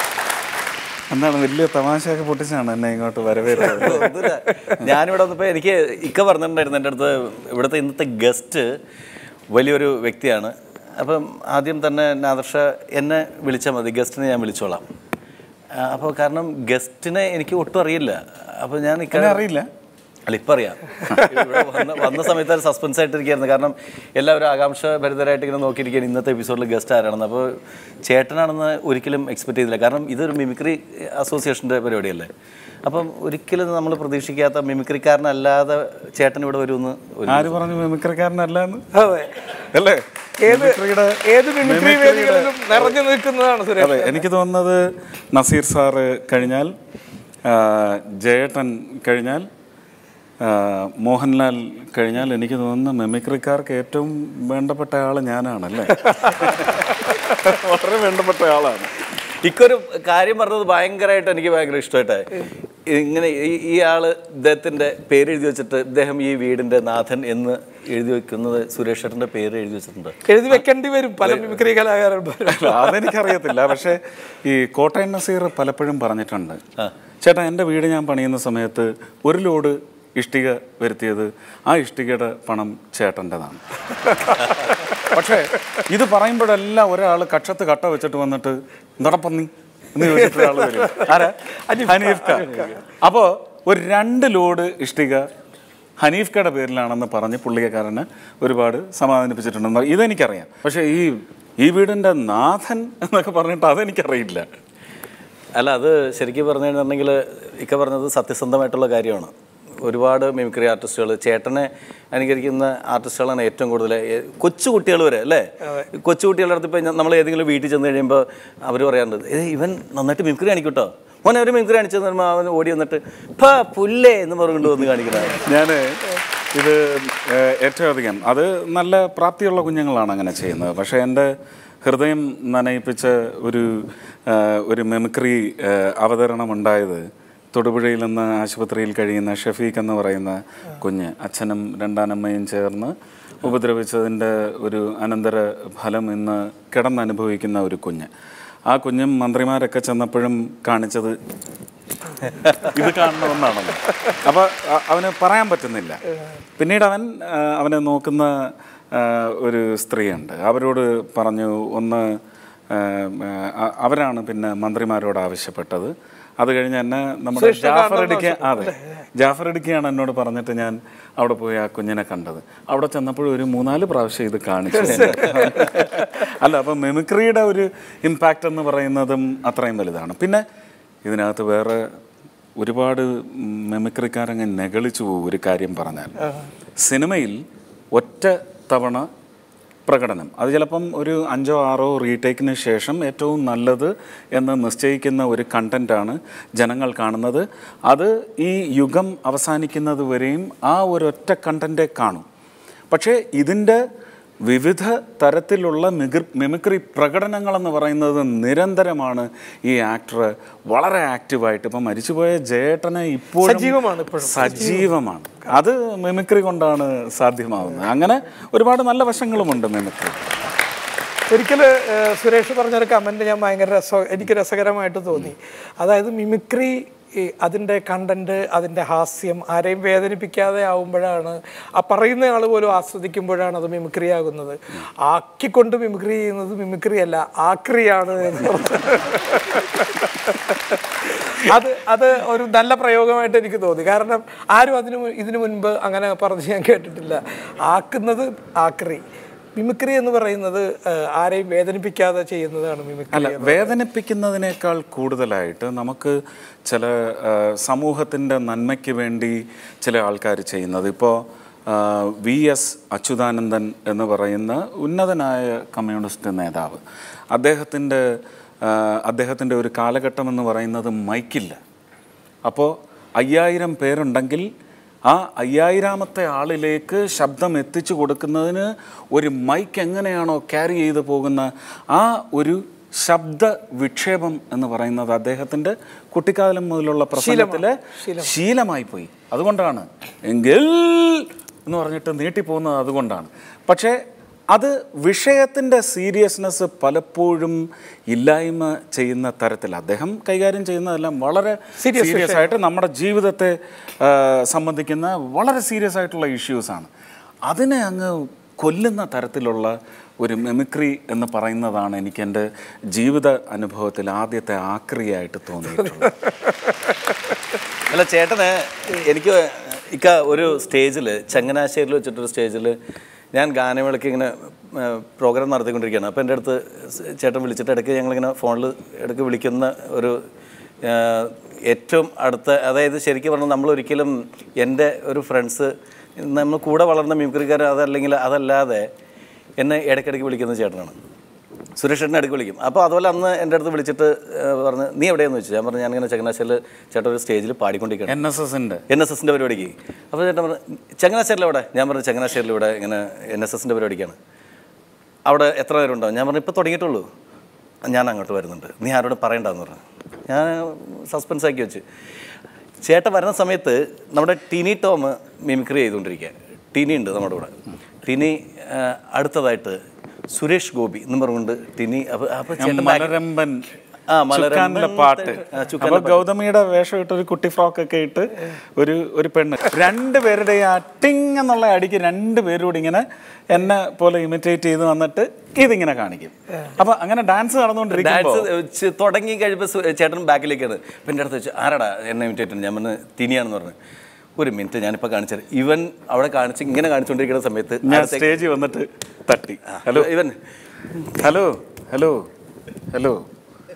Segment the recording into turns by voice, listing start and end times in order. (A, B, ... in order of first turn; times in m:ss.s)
0:01.1-0:04.1 A
0:03.6-0:08.7 B
0:09.5-0:14.8 B
0:15.8-0:19.4 B
0:19.1-0:19.7 A
0:20.3-0:32.3 B
0:32.8-0:37.6 B
0:37.3-0:38.8 A
0:38.9-0:39.3 C
0:39.7-0:42.9 A
0:40.4-0:44.2 C
0:43.8-0:44.8 A
0:45.3-0:46.7 A
0:47.4-0:49.4 A
0:50.4-0:58.9 A
0:59.4-1:10.6 B
1:10.3-1:13.1 C
1:11.2-1:11.6 B
1:12.5-1:16.6 A
1:17.2-1:23.6 A
1:25.1-1:35.3 A
1:30.0-1:32.7 C
1:36.0-1:44.5 A
1:45.6-1:49.3 B
1:49.8-2:05.4 B
2:05.4-2:06.0 A
2:06.5-2:11.3 A
2:11.8-2:28.1 A
2:28.7-2:31.2 A
2:32.6-2:36.0 A
2:36.6-2:42.1 A
2:42.7-3:00.4 A
2:47.4-2:48.8 C
2:54.9-2:55.7 B
2:55.0-2:55.3 C
3:01.0-3:01.9 A
3:02.6-3:06.1 A
3:06.8-3:07.4 A
3:07.9-3:09.1 A
3:09.9-3:22.2 A
3:22.9-3:23.8 A
3:24.4-3:40.2 A
3:33.4-3:34.9 C
3:41.3-4:09.0 C
4:09.6-4:13.7 C
4:13.1-4:26.8 A
4:27.3-4:28.0 A
4:28.6-4:31.6 A
4:32.4-4:34.5 A
4:35.1-4:54.0 A
4:47.2-4:48.3 C
4:54.5-5:06.9 A
5:01.8-5:02.5 C
5:07.5-5:16.1 A
5:17.9-5:22.8 B
5:23.3-5:30.2 B
5:30.8-5:38.9 B
5:39.6-5:40.9 B
5:41.8-5:48.2 B
5:48.1-5:48.8 A
5:48.9-5:54.2 B
5:55.2-5:57.0 B
5:57.9-6:01.8 B
6:02.8-6:07.5 B
6:08.0-6:09.8 B
6:10.3-6:13.1 B
6:12.6-6:13.6 A
6:14.1-6:16.2 B
6:14.3-6:28.5 A
6:28.0-6:33.7 B
6:34.4-6:38.4 B
6:37.8-6:40.1 A
6:39.7-6:40.4 B
6:41.2-6:42.3 A
6:42.9-6:43.2 A